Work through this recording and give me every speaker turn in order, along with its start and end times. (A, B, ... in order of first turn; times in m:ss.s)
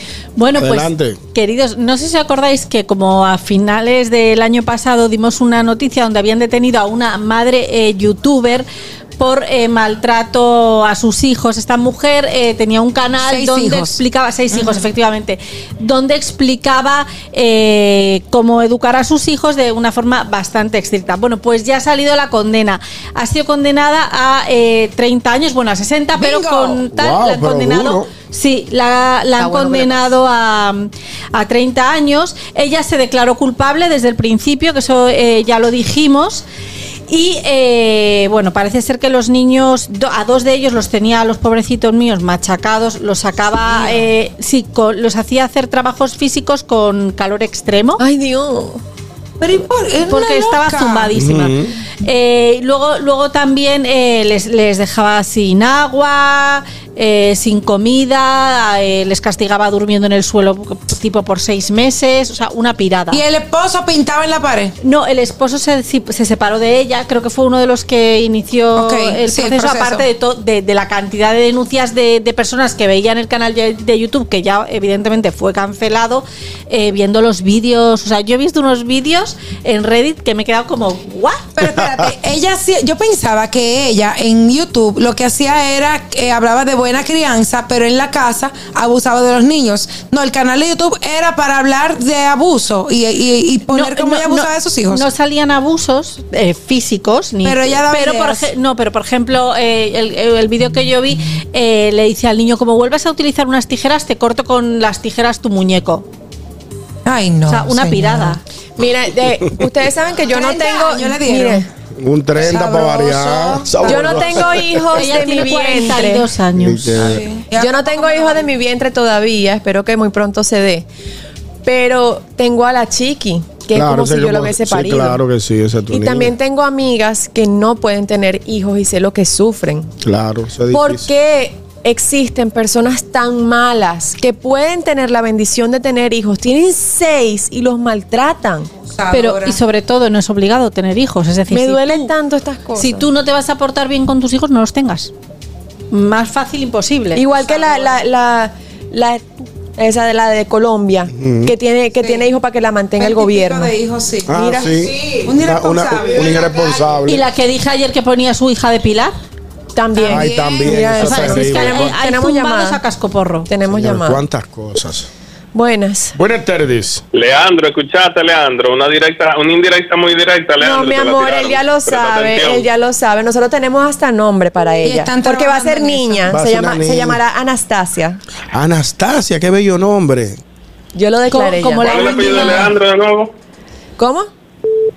0:00.4-0:08.7 A
0:00.6-0:01.2 B
0:09.2-0:36.4 A
0:13.2-0:14.0 C
0:14.5-0:14.8 C
0:26.2-0:26.8 C
0:26.9-0:28.1 B
0:29.4-0:30.0 C
0:37.1-0:48.0 A
0:48.0-0:48.8 D
0:49.4-0:51.1 C
0:50.1-1:03.2 A
0:51.1-0:51.7 B
1:03.1-1:04.7 C
1:04.8-1:21.5 A
1:08.8-1:10.0 C
1:21.6-1:35.1 C
1:33.7-1:46.1 A
1:37.4-1:38.5 C
1:47.0-1:48.4 C
1:47.5-1:48.4 A
1:48.8-1:51.7 D
1:50.3-1:51.7 C
1:52.0-1:54.8 B
1:52.4-1:54.6 C
1:53.8-1:56.3 D
1:54.9-1:57.2 A
1:56.6-1:57.3 B
1:57.0-1:58.4 C
1:57.6-2:00.9 D
2:01.6-2:05.2 D
2:03.7-2:06.3 B
2:05.9-2:09.9 D
2:10.0-2:11.1 B
2:10.7-2:18.7 D
2:18.9-2:19.6 C
2:19.1-2:22.1 A
2:21.5-2:23.0 D
2:22.8-2:25.1 A
2:25.9-2:27.2 A
2:27.2-2:29.2 D
2:29.8-2:33.7 D
2:31.1-2:31.5 B
2:32.0-2:32.3 C
2:33.0-2:36.8 C
2:34.3-2:37.2 B
2:37.1-2:39.2 A
2:39.8-2:42.8 D
2:40.0-2:41.1 C
2:40.1-2:42.0 B
2:41.0-2:43.5 A
2:43.5-2:44.2 D
2:43.7-2:45.1 B
2:45.5-2:46.2 D
2:46.2-2:47.0 B
2:47.1-2:52.7 E
2:50.6-2:58.2 D
2:54.8-2:56.3 C
2:56.3-2:57.2 B
2:58.5-3:00.4 B
3:01.0-3:02.7 D
3:01.3-3:02.7 A
3:01.8-3:03.3 E
3:04.0-3:04.3 D